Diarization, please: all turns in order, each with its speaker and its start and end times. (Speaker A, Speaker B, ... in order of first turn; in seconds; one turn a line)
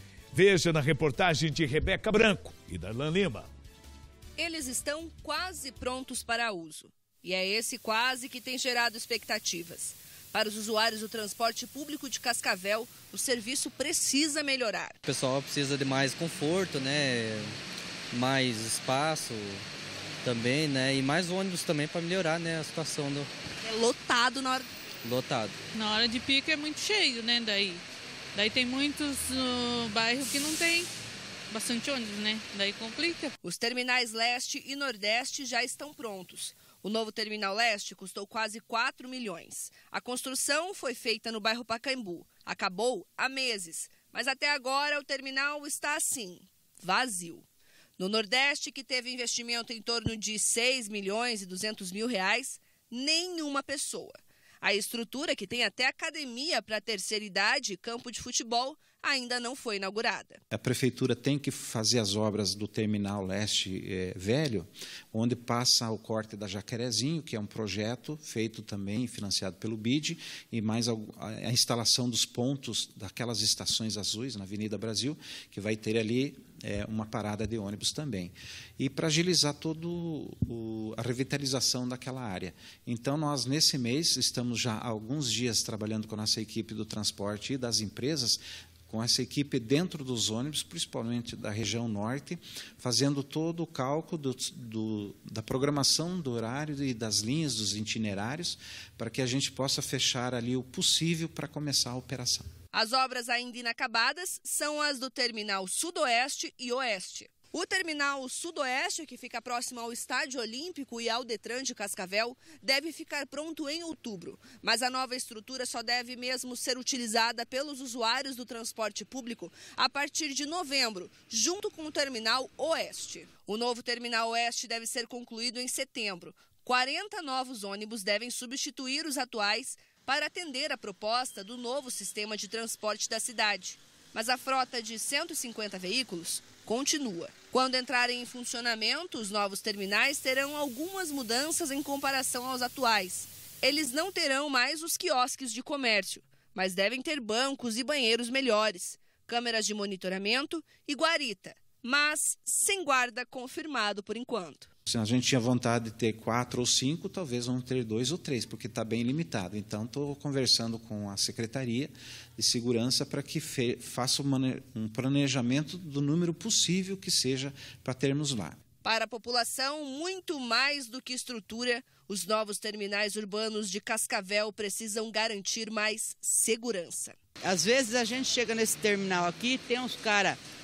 Speaker A: 0.3-3.5
Speaker B: 4.4-15.0
Speaker C: 15.0-17.6
Speaker C: 18.1-19.6
Speaker C: 20.2-23.3
Speaker B: 23.6-24.7
Speaker C: 25.0-25.6
Speaker D: 25.7-27.8
Speaker D: 28.3-30.9
Speaker D: 31.5-33.3
Speaker B: 33.4-47.4
Speaker B: 48.0-60.4
Speaker E: 60.5-102.5
Speaker B: 102.7-154.7
Speaker E: 154.9-168.6
Speaker B: 168.8-177.2
Speaker F: 177.4-180.4